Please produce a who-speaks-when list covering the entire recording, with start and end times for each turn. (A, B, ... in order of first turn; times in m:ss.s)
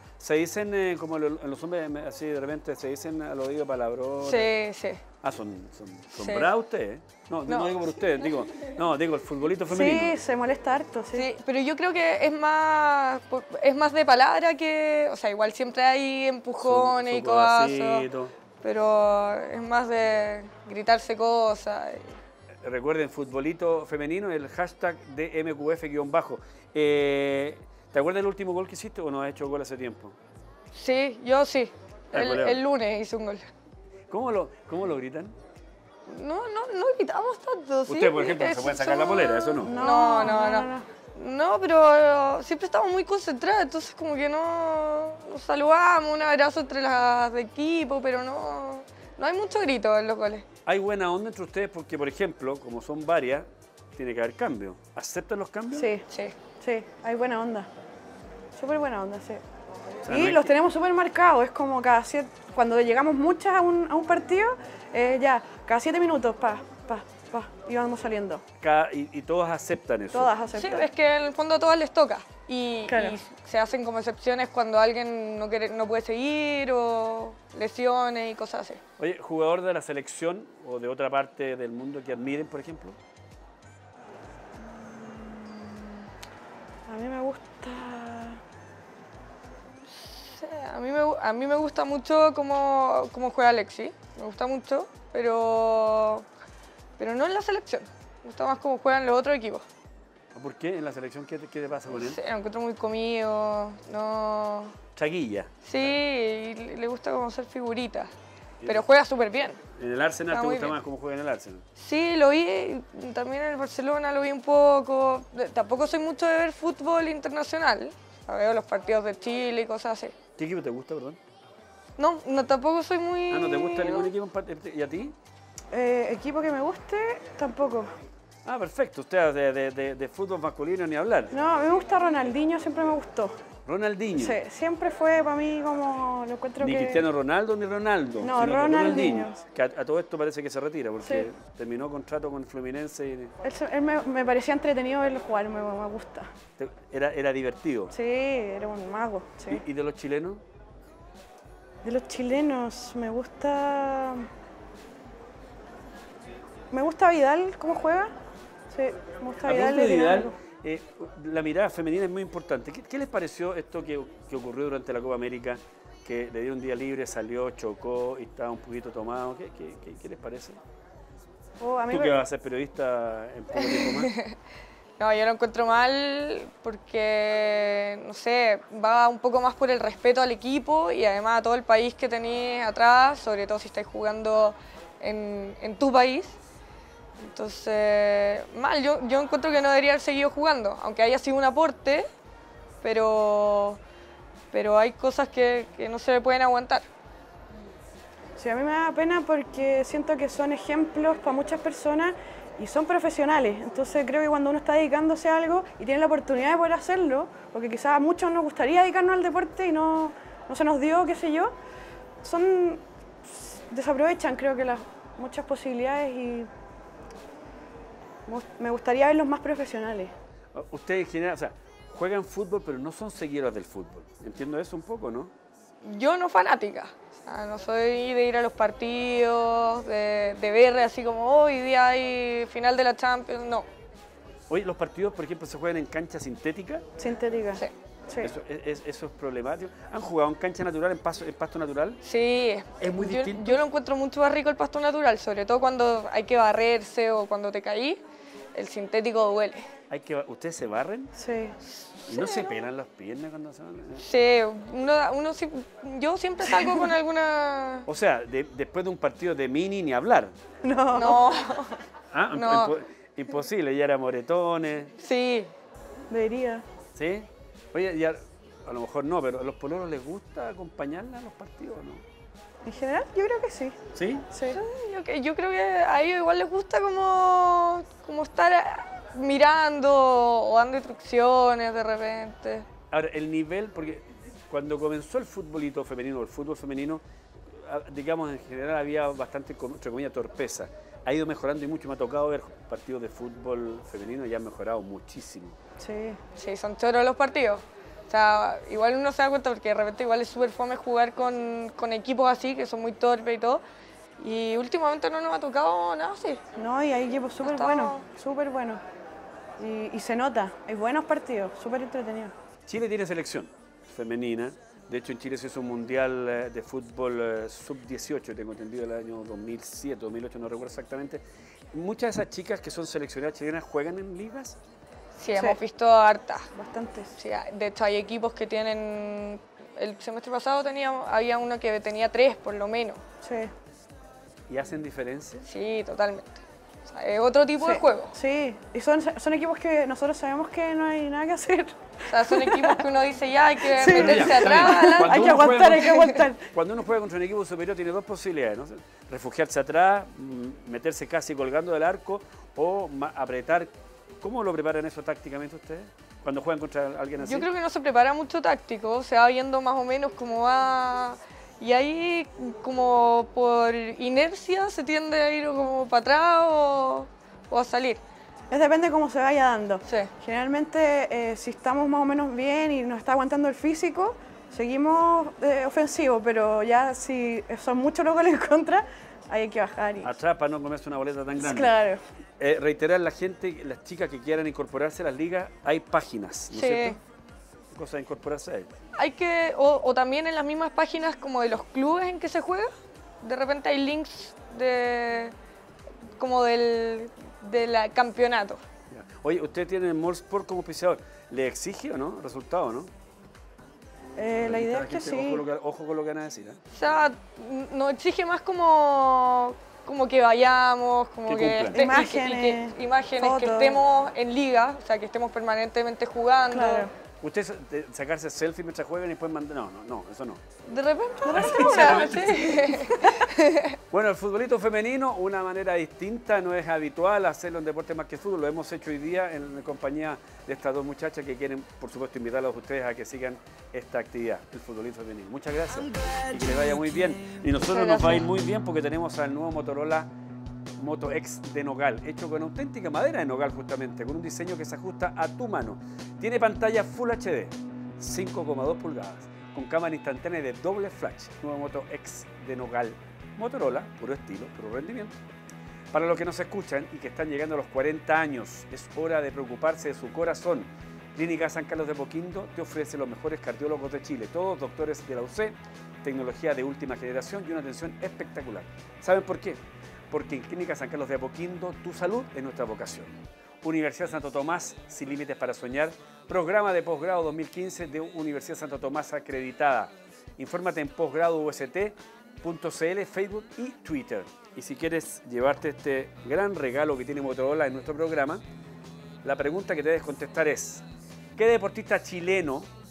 0:00.2-0:04.5 A
0:04.2-0:05.0 B
0:05.2-0:10.2 A
0:06.1-0:06.5 B
0:07.5-0:07.7 B
0:09.7-0:11.2 C
0:11.1-0:18.0 B
0:16.6-0:18.3 A
0:18.6-0:22.2 B
0:22.6-0:30.2 A
0:30.7-0:33.5 B
0:32.1-0:32.6 A
0:34.1-0:35.3 A
0:36.1-0:50.4 B
0:37.9-0:39.7 A
0:39.6-0:40.8 C
0:50.6-0:55.9 A
0:55.7-0:56.0 C
0:56.1-0:56.3 B
0:56.6-0:57.7 C
0:58.6-0:59.4 C
1:00.0-1:00.5 A
1:00.1-1:08.4 C
1:08.6-1:10.3 A
1:10.1-1:10.9 C
1:10.5-1:18.8 B
1:12.9-1:13.2 C
1:19.0-1:23.0 A
1:24.6-1:26.0 C
1:26.9-1:28.4 C
1:30.0-1:36.2 B
1:37.0-1:39.6 B
1:40.3-1:42.2 A
1:41.9-1:44.7 B
1:45.0-1:45.9 A
1:45.6-1:48.1 B
1:48.6-1:49.6 B
1:49.7-1:51.6 A
1:50.3-1:50.8 B
1:51.8-2:00.1 B
2:00.4-2:01.2 A
2:02.0-2:04.1 B
2:03.3-2:05.1 A
2:05.7-2:07.9 C
2:08.4-2:11.3 A
2:11.3-2:13.4 C
2:13.6-2:14.4 A
2:14.1-2:17.0 C
2:16.6-2:23.3 A
2:18.2-2:19.4 C
2:21.0-2:21.3 C
2:23.4-2:26.3 C
2:26.6-2:27.9 A
2:27.9-2:29.6 C
2:29.5-2:30.4 A
2:31.8-2:34.3 C
2:36.7-2:38.1 C
2:38.7-2:40.3 C
2:39.4-2:50.6 A
2:51.6-2:52.2 C
2:51.9-2:54.1 A
2:53.6-2:54.3 B
2:55.0-3:06.4 B
3:07.2-3:12.1 B
3:12.8-3:13.8 B
3:14.5-3:16.8 B
3:18.4-3:31.5 C
3:32.2-3:36.5 C
3:38.2-3:40.1 C
3:40.5-3:45.3 A
3:45.8-3:53.7 B
3:54.5-3:56.8 A
3:57.0-3:58.3 C
3:58.2-4:02.0 A
4:02.0-4:08.0 B
4:02.8-4:03.6 A
4:08.5-4:09.7 B
4:09.9-4:11.1 A
4:11.2-4:11.6 C
4:11.7-4:12.5 B
4:12.1-4:14.0 A
4:14.0-4:17.9 B
4:16.5-4:16.8 C
4:17.8-4:20.3 A
4:20.6-4:21.6 C
4:20.9-4:21.8 B
4:22.1-4:24.9 A
4:22.3-4:22.7 B
4:25.0-4:25.5 B
4:26.1-4:26.6 C
4:26.9-4:32.0 A
4:32.6-4:34.6 C
4:33.9-4:34.3 A
4:34.4-4:42.6 B
4:42.9-4:55.6 A
4:55.8-4:56.2 C
4:56.4-5:03.6 B
5:04.2-5:06.4 B
5:06.6-5:08.8 C
5:07.4-5:08.0 B
5:09.6-5:12.3 C
5:12.7-5:21.2 A
5:21.7-5:24.6 A
5:25.2-5:26.5 B
5:26.5-5:27.1 C
5:27.2-5:33.0 B
5:33.2-5:33.5 C
5:34.5-5:35.4 A
5:35.4-5:38.1 B
5:37.6-5:42.8 C
5:42.1-5:45.4 B
5:43.6-5:46.4 C
5:44.0-5:53.7 A
5:45.9-5:46.2 B
5:54.2-5:57.5 A
5:57.2-6:08.0 B
6:08.5-6:20.2 C
6:20.0-6:21.8 A
6:21.3-6:22.0 C
6:22.4-6:27.0 A
6:26.5-6:27.0 B
6:27.7-6:28.7 A
6:29.0-6:32.7 B
6:33.2-6:35.3 B
6:36.2-6:38.6 B
6:38.9-6:42.9 A
6:44.2-6:45.4 C
6:44.4-6:46.6 A
6:46.7-6:56.9 B
6:51.3-6:51.9 A
6:51.7-6:53.8 C
6:56.5-6:56.9 C
6:57.2-7:00.4 A
7:00.6-7:03.8 B
7:01.3-7:02.2 C
7:01.3-7:02.6 A
7:03.9-7:20.1 A
7:17.6-7:18.3 B
7:20.8-7:35.1 A
7:35.9-8:08.4 A
8:09.2-8:10.8 A
8:11.4-8:12.7 A